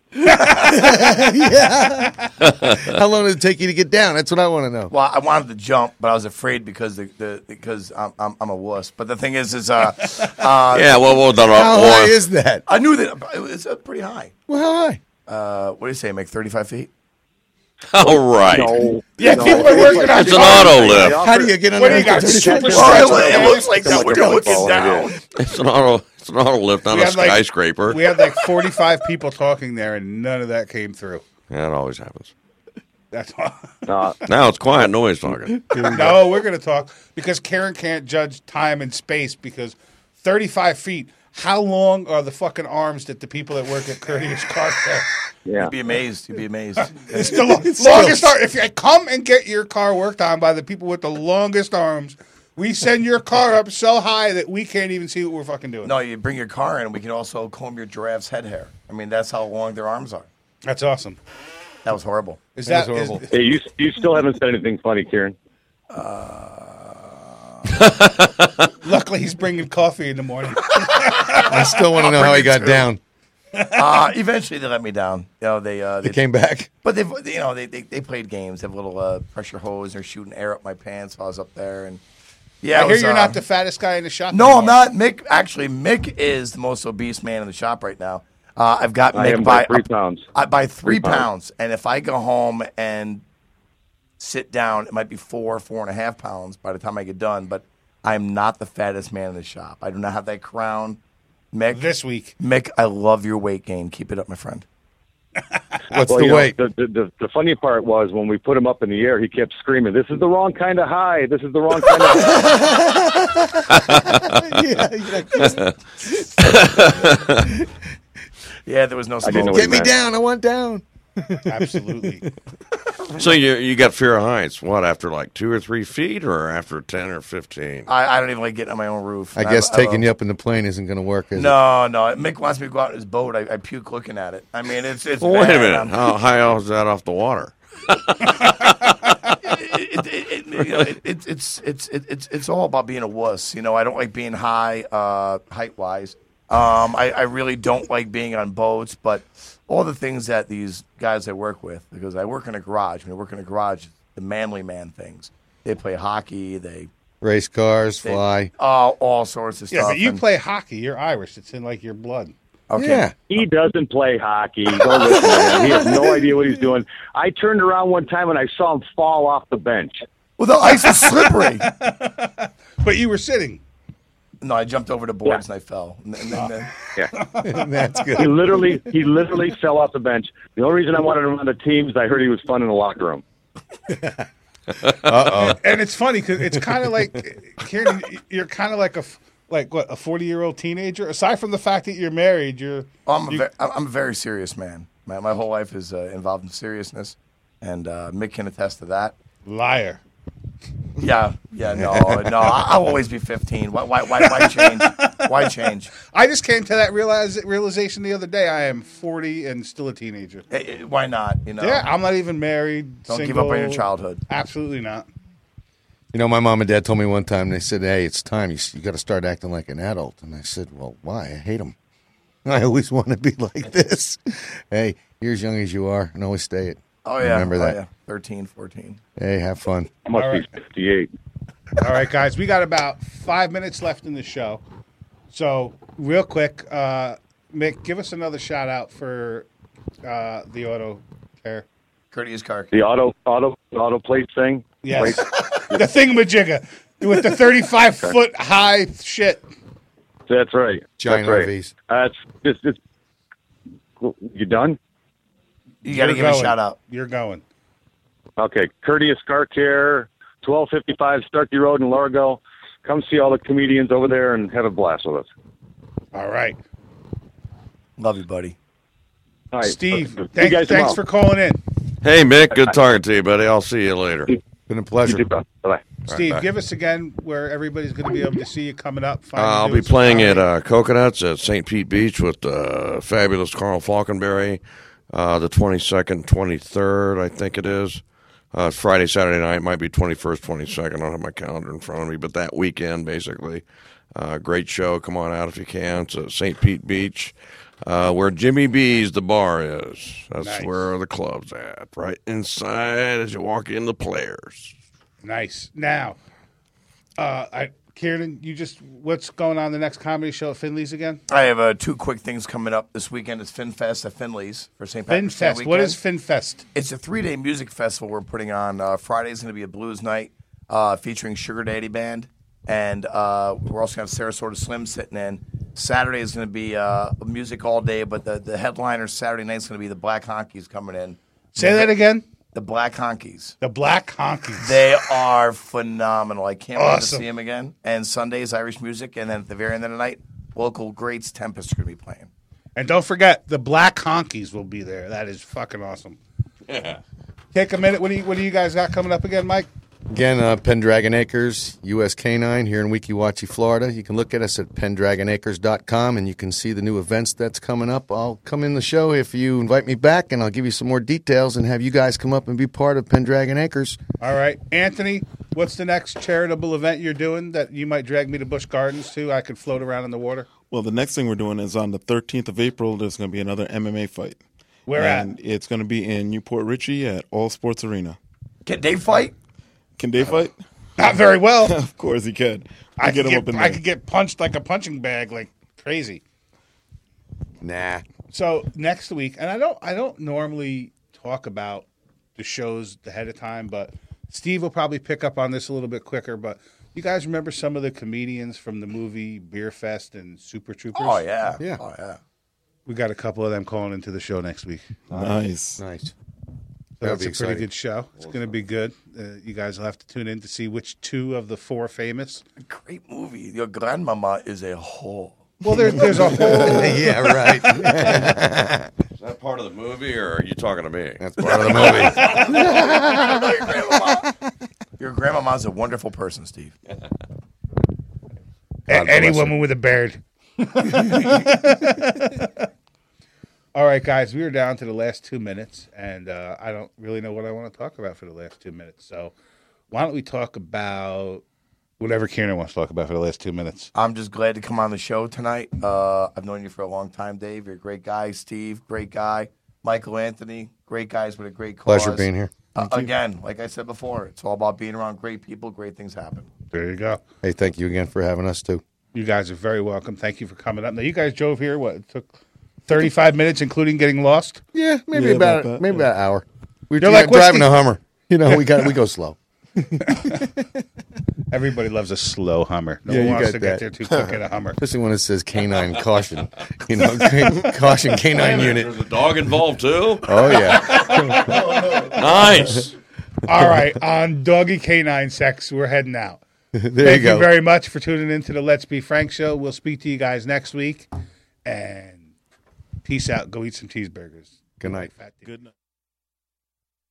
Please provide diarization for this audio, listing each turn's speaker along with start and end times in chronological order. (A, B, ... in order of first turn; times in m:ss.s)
0:00.3-0:01.1 A
0:00.3-0:04.9 B
0:02.4-0:02.9 C
0:04.9-0:11.1 D
0:10.7-0:12.2 C
0:11.4-0:12.6 B
0:12.7-0:14.3 D
0:14.5-0:15.0 B
0:15.2-0:16.9 D
0:17.9-0:18.9 C
0:18.0-0:25.1 E
0:19.2-0:21.1 A
0:20.0-0:21.2 C
0:21.1-0:23.2 B
0:21.8-0:23.9 A
0:22.7-0:25.2 D
0:23.8-0:24.6 B
0:25.4-0:28.2 C
0:26.9-0:31.2 A
0:31.5-0:32.3 C
0:33.1-0:33.7 A
0:33.8-0:34.3 E
0:34.2-0:36.0 C
0:35.9-0:45.1 A
0:45.4-0:45.7 E
0:45.6-0:47.7 D
0:46.8-0:55.9 A
0:47.7-0:48.3 B
0:55.8-1:00.3 D
1:00.6-1:01.2 A
1:01.8-1:02.4 D
1:02.6-1:03.3 A
1:02.6-1:03.2 B
1:03.3-1:05.4 E
1:05.9-1:07.8 D
1:07.7-1:08.7 C
1:08.8-1:11.5 A
1:11.1-1:12.9 D
1:11.4-1:13.0 B
1:13.8-1:16.2 D
1:16.0-1:16.7 B
1:16.8-1:22.0 D
1:22.6-1:23.4 D
1:22.7-1:24.8 A
1:24.3-1:33.2 D
1:29.1-1:30.3 E
1:30.8-1:31.2 E
1:34.2-1:41.0 D
1:41.5-1:44.6 D
1:41.7-1:42.4 A
1:45.9-1:46.6 B
1:46.0-1:52.6 E
1:52.4-1:57.7 B
1:53.7-1:54.5 C
1:55.3-1:55.7 C
1:56.4-1:57.5 C
1:58.6-1:59.8 D
1:59.2-1:59.9 E
1:59.3-2:02.3 B
2:01.4-2:02.2 A
2:03.2-2:07.9 C
2:07.9-2:10.0 D
2:09.4-2:11.6 B
2:11.4-2:15.9 D
2:15.2-2:18.7 C
2:19.4-2:36.9 D
2:37.2-2:38.5 B
2:38.0-2:40.2 D
2:39.7-2:42.3 A
2:42.7-2:43.1 D
2:42.8-2:43.1 B
2:43.3-2:50.0 E
2:50.4-2:51.7 D
2:50.7-2:53.6 A
2:54.4-2:56.9 D
2:57.1-2:57.7 A
2:57.4-2:58.9 B
2:58.1-3:03.2 E
3:03.9-3:04.2 B
3:04.9-3:05.6 B
3:05.3-3:13.5 A
3:06.4-3:07.0 B
3:13.0-3:19.1 D
3:19.4-3:20.0 A
3:21.0-3:25.9 D
3:21.7-3:22.4 B
3:24.2-3:25.5 A
3:26.1-3:30.4 A
3:30.5-3:31.9 D
3:31.6-3:35.0 A
3:33.1-3:34.2 D
3:36.1-3:41.7 B
3:42.4-3:47.8 B
3:47.0-3:49.0 D
3:49.2-3:49.9 B
3:50.0-3:51.1 E
3:50.1-3:50.4 A
3:51.8-3:54.6 A
3:55.3-3:59.4 A
4:00.0-4:01.6 A
4:02.1-4:02.8 D
4:02.7-4:05.8 E
4:04.8-4:09.4 A
4:10.3-4:12.8 E
4:11.0-4:11.7 B
4:14.0-4:14.8 E
4:15.8-4:16.8 D
4:15.9-4:17.4 A
4:18.4-4:25.3 E
4:26.1-4:26.6 A
4:28.0-4:28.5 D
4:29.5-4:31.0 E
4:29.6-4:31.6 A
4:32.0-4:34.4 C
4:34.7-4:35.2 B
4:35.0-4:35.9 E
4:36.1-4:36.4 C
4:36.1-4:40.4 A
4:39.4-4:44.6 C
4:45.1-4:48.0 C
4:48.5-5:04.7 C
5:00.4-5:00.9 A
5:05.2-5:06.2 A
5:07.2-5:11.2 A
5:11.3-5:16.0 D
5:15.1-5:16.6 A
5:16.7-5:31.9 D
5:31.5-5:32.2 A
5:32.5-5:33.6 D
5:33.6-5:34.8 A
5:34.6-5:42.3 D
5:36.7-5:37.2 A
5:42.8-5:46.2 A
5:46.7-5:47.0 C
5:47.5-5:49.7 A
5:50.1-6:04.0 B
6:04.2-6:10.5 A
6:10.7-6:14.4 F
6:14.9-6:15.3 A
6:14.9-6:18.2 F
6:18.6-6:19.3 D
6:20.0-6:20.6 F
6:21.0-6:21.8 A
6:21.7-6:23.8 F
6:23.0-6:26.2 A
6:27.6-6:28.0 B
6:28.3-6:41.2 A
6:40.9-6:42.2 D
6:42.8-6:44.8 A
6:45.1-6:45.8 F
6:45.1-6:46.1 B
6:47.0-6:52.4 A
6:47.0-6:47.7 B
6:52.6-6:56.3 D
6:55.6-6:57.7 A
6:56.4-6:58.9 B
6:59.2-7:02.6 C
7:01.2-7:04.2 B
7:01.8-7:04.3 D
7:05.0-7:06.7 D
7:08.9-7:09.6 B
7:08.9-7:12.7 A
7:13.7-7:19.3 A
7:19.9-7:21.4 A
7:22.0-7:23.9 A
7:23.9-7:36.5 D
7:31.8-7:32.5 B
7:36.7-7:37.2 A
7:37.4-7:38.8 B
7:39.1-7:42.3 A
7:42.8-7:44.6 A
7:44.7-7:50.8 B
7:45.1-7:46.0 F
7:47.0-7:47.8 A
7:50.0-7:50.4 A
7:51.5-7:54.8 A
7:53.1-7:54.2 B
7:54.8-7:58.9 B
7:58.3-8:00.7 C
8:00.2-8:02.0 B
8:00.7-8:02.1 A
8:01.7-8:02.9 C
8:03.4-8:06.4 A
8:06.8-8:07.5 B
8:07.0-8:11.1 A
8:11.6-8:12.2 A
8:13.0-8:15.5 A
8:14.8-8:15.1 B